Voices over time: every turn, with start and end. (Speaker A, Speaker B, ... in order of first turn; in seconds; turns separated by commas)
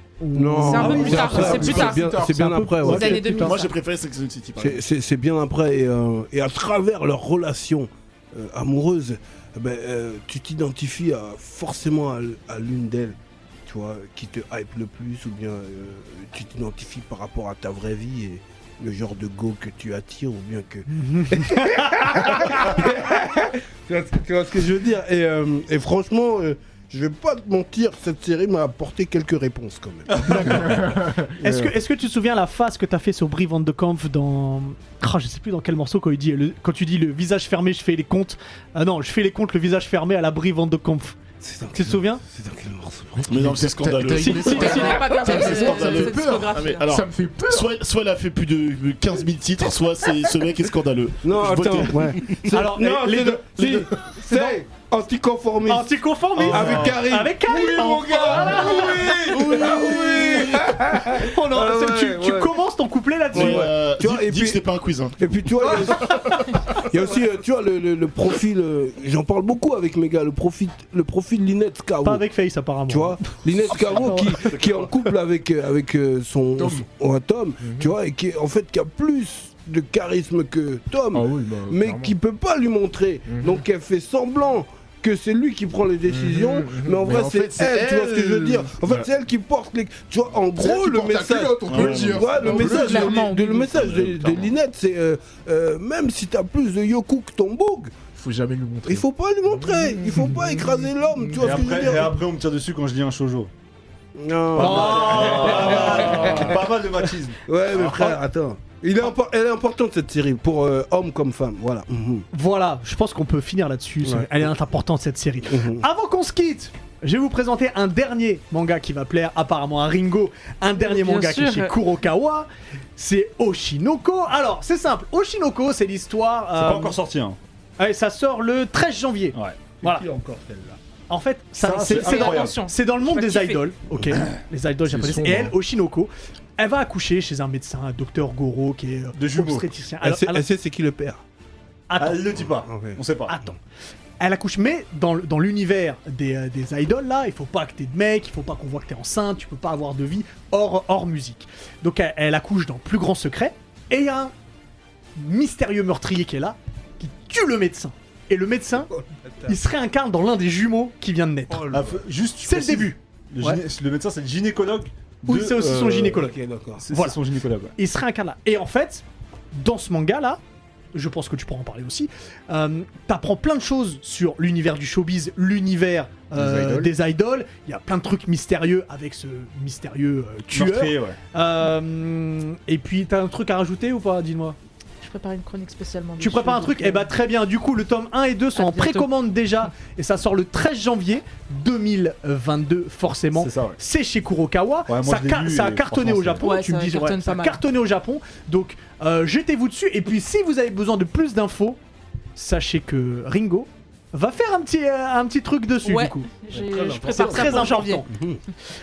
Speaker A: 0.2-3.6, Speaker B: 0.3-3.3, Speaker C: 0.6-2.1, Speaker D: 0.8-2.4, Speaker E: 1.5-1.8, Speaker C: 2.8-3.7, Speaker E: 3.3-4.8, Speaker B: 4.6-30.8, Speaker A: 20.9-22.9, Speaker F: 30.1-30.9, Speaker A: 30.3-30.8, Speaker D: 30.7-31.1, Speaker A: 31.4-41.2, Speaker B: 31.4-31.7, Speaker B: 41.4-43.9, Speaker A: 41.7-42.2, Speaker E: 43.3-52.5, Speaker D: 43.4-47.7, Speaker C: 44.1-46.8, Speaker A: 44.5-45.8, Speaker B: 51.2-62.5, Speaker A: 52.5-54.6, Speaker A: 55.7-63.7, Speaker E: 56.4-57.0, Speaker E: 57.5-58.8, Speaker E: 59.3-60.5, Speaker E: 63.3-65.9, Speaker B: 63.3-64.6, Speaker B: 65.2-66.2, Speaker A: 65.7-66.5, Speaker B: 66.9-72.2, Speaker A: 72.0-73.3, Speaker B: 72.9-98.1, Speaker A: 73.8-74.3, Speaker D: 76.6-76.9, Speaker D: 77.6-77.9, Speaker D: 81.1-82.1, Speaker D: 83.3-83.6, Speaker D: 86.1-89.1, Speaker D: 90.6-93.3, Speaker E: 91.7-94.5, Speaker C: 92.6-94.0, Speaker D: 98.1-100.8, Speaker B: 98.8-102.2, Speaker F: 101.4-103.5, Speaker B: 104.2-106.6, Speaker A: 104.5-106.6, Speaker F: 104.6-107.8, Speaker E: 105.5-106.6, Speaker B: 107.5-112.3, Speaker A: 107.9-108.2, Speaker A: 112.3-127.0, Speaker B: 114.0-114.5, Speaker B: 115.5-115.8, Speaker C: 120.8-121.7, Speaker F: 126.6-127.4, Speaker A: 127.8-130.1, Speaker F: 129.3-130.8, Speaker A: 131.1-140.4, Speaker F: 131.6-132.6, Speaker C: 131.8-133.7, Speaker D: 134.9-135.6, Speaker F: 139.2-139.7, Speaker B: 140.0-141.2, Speaker A: 141.9-142.4, Speaker F: 142.0-143.3, Speaker B: 142.6-143.0, Speaker A: 143.3-143.6, Speaker A: 144.2-154.3, Speaker A: 155.2-158.9, Speaker B: 158.9-159.5, Speaker A: 159.5-161.7, Speaker B: 161.5-162.0, Speaker F: 161.7-166.2, Speaker A: 162.4-163.6, Speaker A: 165.3-166.4, Speaker B: 165.7-166.8, Speaker F: 166.8-167.7, Speaker A: 166.9-167.2, Speaker A: 167.8-170.4, Speaker A: 170.9-184.6, Speaker F: 176.4-176.8, Speaker F: 180.5-181.2, Speaker C: 185.0-187.1, Speaker A: 186.2-201.8, Speaker C: 188.6-189.1, Speaker F: 193.3-193.8, Speaker F: 194.9-196.5, Speaker C: 196.4-197.6, Speaker A: 202.4-206.3, Speaker C: 205.8-208.1, Speaker E: 206.5-207.8, Speaker A: 207.1-208.1, Speaker B: 208.1-208.4